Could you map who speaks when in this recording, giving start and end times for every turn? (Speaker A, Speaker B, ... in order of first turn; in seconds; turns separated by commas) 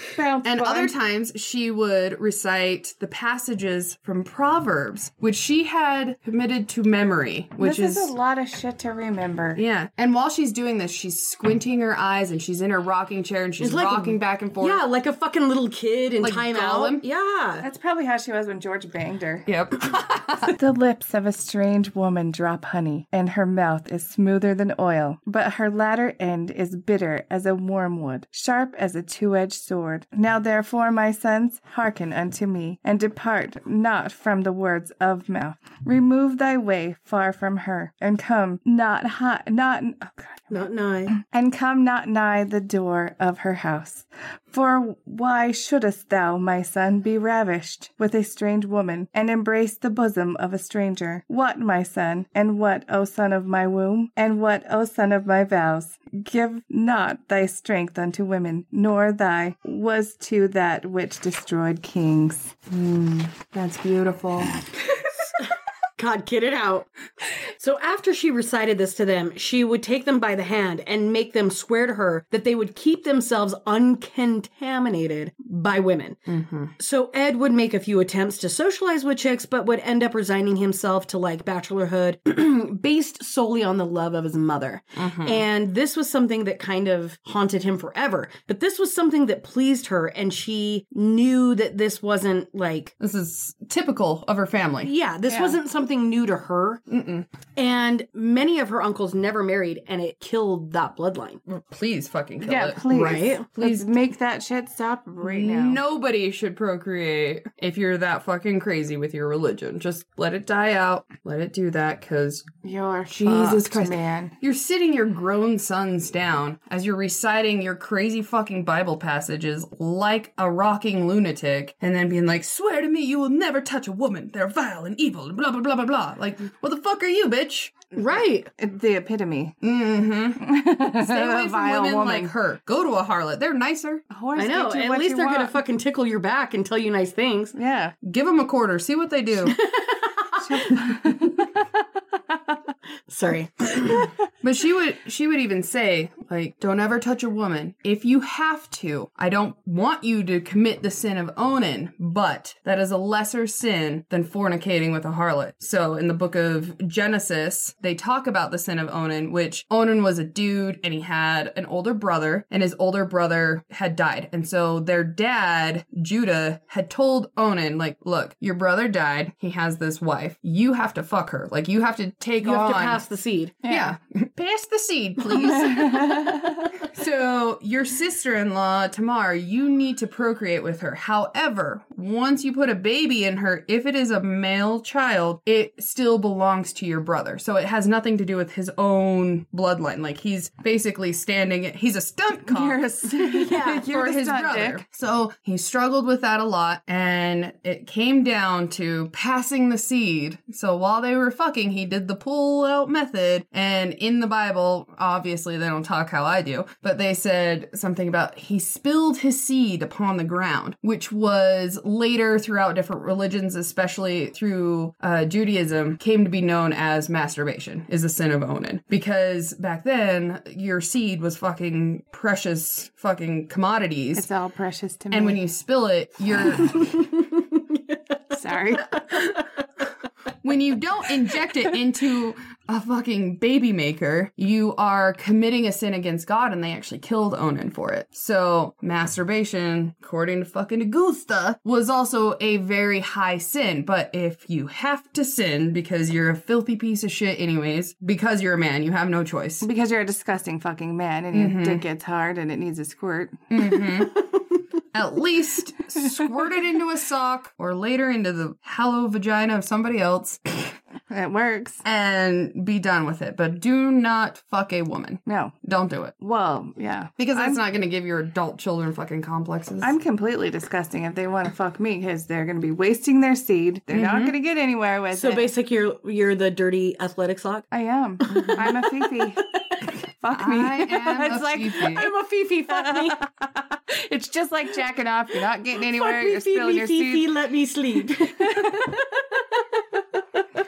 Speaker A: 0.1-0.9, Speaker B: 0.4-8.1, Speaker A: 7.6-9.6, Speaker B: 9.6-14.8, Speaker C: 13.6-17.7, Speaker B: 16.2-17.0, Speaker A: 17.6-19.5, Speaker B: 19.5-20.5, Speaker A: 20.4-40.5, Speaker C: 40.5-41.2, Speaker A: 41.2-62.6, Speaker B: 62.7-64.5, Speaker A: 63.6-64.4, Speaker C: 65.4-66.9, Speaker C: 67.5-76.2, Speaker B: 76.3-76.7, Speaker C: 76.8-92.9, Speaker B: 85.0-85.4, Speaker B: 93.0-94.9, Speaker C: 94.8-96.8, Speaker A: 95.3-95.6, Speaker B: 96.9-97.3, Speaker C: 97.5-101.4, Speaker B: 101.5-103.9, Speaker A: 102.4-105.8, Speaker C: 102.8-103.5, Speaker B: 105.2-112.5, Speaker A: 112.6-114.3, Speaker B: 113.1-128.5, Speaker A: 128.1-129.6, Speaker B: 129.6-134.0, Speaker A: 130.4-132.3, Speaker A: 134.1-135.6, Speaker C: 134.4-137.6, Speaker A: 137.6-137.9, Speaker B: 138.0-139.6, Speaker C: 139.4-140.4, Speaker A: 140.4-141.6, Speaker C: 143.1-144.1, Speaker B: 144.4-173.0, Speaker C: 172.4-173.6, Speaker A: 173.6-173.9, Speaker B: 173.7-224.3, Speaker A: 175.6-176.7, Speaker A: 192.5-194.8, Speaker C: 193.4-193.9, Speaker A: 224.1-225.4, Speaker B: 225.1-227.0, Speaker C: 226.8-227.9, Speaker A: 228.3-228.9, Speaker B: 230.4-249.7, Speaker A: 249.6-253.4, Speaker B: 251.3-251.8, Speaker B: 253.5-254.3, Speaker B: 254.9-260.4, Speaker A: 261.1-261.8, Speaker B: 261.8-266.1, Speaker A: 265.3-265.5, Speaker A: 266.2-267.6, Speaker B: 267.2-269.9, Speaker A: 269.8-275.5, Speaker B: 273.9-274.4, Speaker C: 275.1-277.7, Speaker A: 277.7-282.1, Speaker C: 278.3-278.7, Speaker B: 280.3-282.1, Speaker C: 281.9-283.2, Speaker A: 282.7-287.3, Speaker C: 285.8-289.8, Speaker A: 288.2-289.0